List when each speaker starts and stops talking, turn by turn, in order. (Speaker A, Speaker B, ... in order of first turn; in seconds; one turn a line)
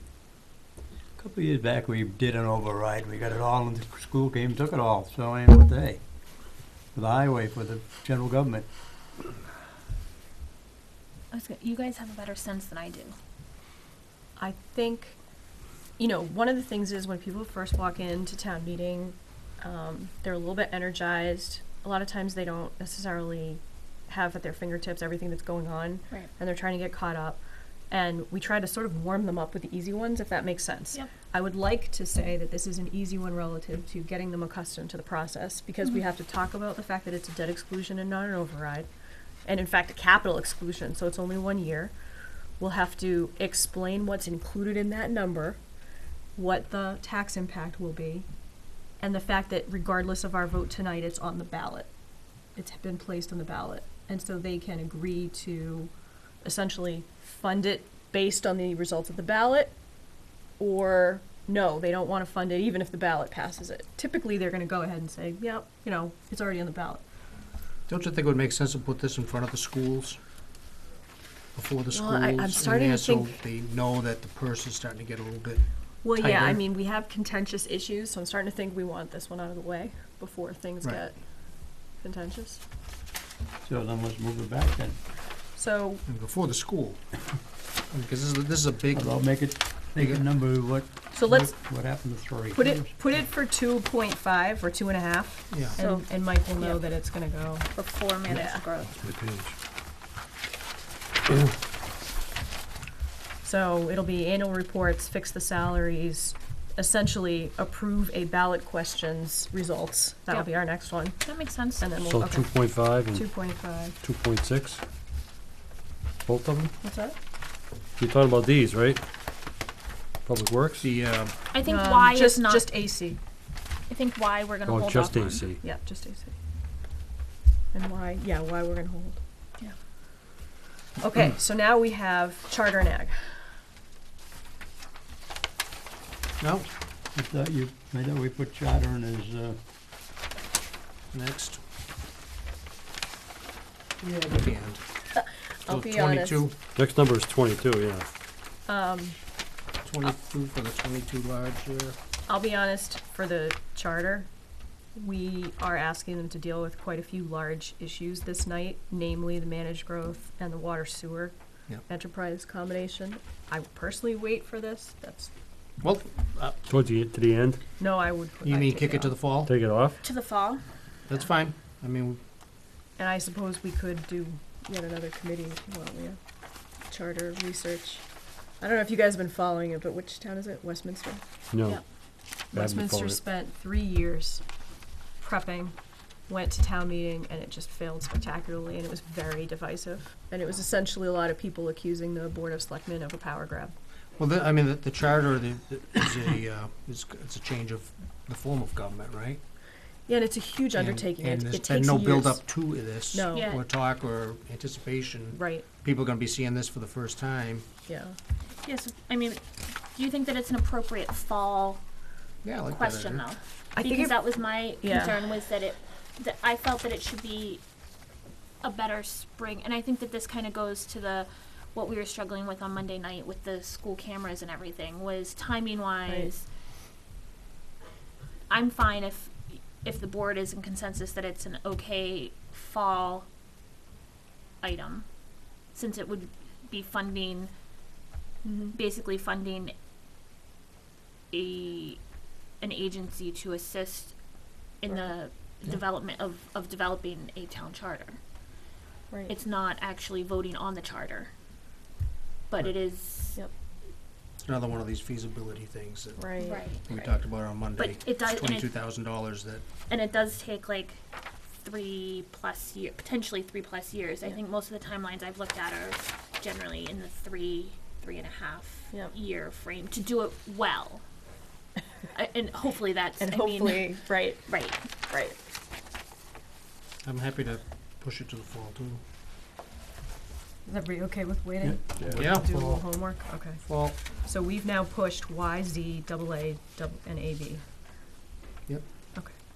Speaker A: 1.2-6.0
Speaker A: 6.9-8.7
Speaker B: 11.3-13.2
Speaker C: 14.4-15.2
Speaker C: 16.0-38.9
Speaker C: 39.5-41.9
Speaker C: 42.6-45.6
Speaker C: 46.4-48.3
Speaker C: 49.0-51.9
Speaker C: 52.6-55.9
Speaker C: 56.4-59.7
Speaker C: 60.6-67.0
Speaker D: 67.9-70.2
Speaker D: 71.5-76.6
Speaker C: 71.9-73.4
Speaker C: 76.0-81.2
Speaker C: 82.0-82.6
Speaker A: 83.6-85.0
Speaker C: 85.5-86.0
Speaker D: 86.1-87.0
Speaker D: 87.9-89.2
Speaker A: 88.9-92.9
Speaker D: 90.0-90.2
Speaker C: 91.1-91.6
Speaker C: 92.5-97.7
Speaker D: 95.5-95.8
Speaker B: 95.8-96.8
Speaker B: 97.7-99.0
Speaker C: 98.2-98.6
Speaker E: 99.0-99.5
Speaker C: 103.4-112.5
Speaker B: 111.2-111.9
Speaker E: 112.0-113.3
Speaker C: 113.1-114.0
Speaker E: 114.0-114.8
Speaker E: 116.2-116.7
Speaker C: 116.8-117.2
Speaker E: 118.0-119.0
Speaker E: 120.2-120.9
Speaker D: 120.8-121.3
Speaker B: 121.5-122.7
Speaker C: 121.6-123.2
Speaker B: 123.9-125.5
Speaker E: 124.7-125.6
Speaker C: 125.6-126.3
Speaker C: 127.7-129.2
Speaker C: 131.0-133.3
Speaker D: 136.4-136.7
Speaker A: 137.1-139.6
Speaker D: 141.1-141.6
Speaker D: 144.1-144.8
Speaker C: 145.2-146.4
Speaker D: 145.7-146.6
Speaker E: 146.8-148.1
Speaker C: 148.7-149.2
Speaker D: 149.8-152.0
Speaker C: 152.3-154.3
Speaker C: 154.9-161.3
Speaker C: 161.9-165.3
Speaker D: 165.8-166.6
Speaker E: 166.7-167.6
Speaker C: 167.8-169.2
Speaker D: 168.4-169.5
Speaker E: 169.5-170.0
Speaker B: 170.0-170.6
Speaker D: 171.1-172.2
Speaker C: 173.0-176.2
Speaker C: 176.9-178.1
Speaker C: 178.6-181.8
Speaker E: 181.5-181.8
Speaker E: 182.5-183.2
Speaker C: 182.5-184.4
Speaker C: 185.2-185.8
Speaker C: 186.3-193.7
Speaker D: 194.2-199.4
Speaker C: 200.1-202.5
Speaker D: 200.8-207.7
Speaker C: 203.1-203.5
Speaker B: 203.3-203.6
Speaker C: 205.3-205.7
Speaker C: 207.9-208.2
Speaker B: 208.6-211.8
Speaker D: 212.4-213.3
Speaker B: 212.7-217.6
Speaker C: 213.8-215.2
Speaker B: 218.6-226.5
Speaker B: 228.5-233.3
Speaker B: 234.6-235.1
Speaker B: 235.7-237.5
Speaker C: 238.4-238.8
Speaker B: 238.7-239.7
Speaker B: 241.3-242.0
Speaker B: 242.6-244.2
Speaker B: 244.8-248.2
Speaker C: 249.1-249.3
Speaker B: 249.3-251.3
Speaker B: 252.5-253.4
Speaker D: 254.4-256.2
Speaker C: 256.2-257.1
Speaker B: 256.4-256.9
Speaker D: 256.7-259.7
Speaker B: 257.7-258.7
Speaker B: 259.9-261.0
Speaker B: 261.6-271.0
Speaker B: 272.1-274.8
Speaker C: 273.2-274.5
Speaker C: 275.0-275.4
Speaker D: 277.0-279.0
Speaker C: 280.7-287.6
Speaker A: 281.6-282.8
Speaker D: 282.2-282.5
Speaker D: 283.6-284.0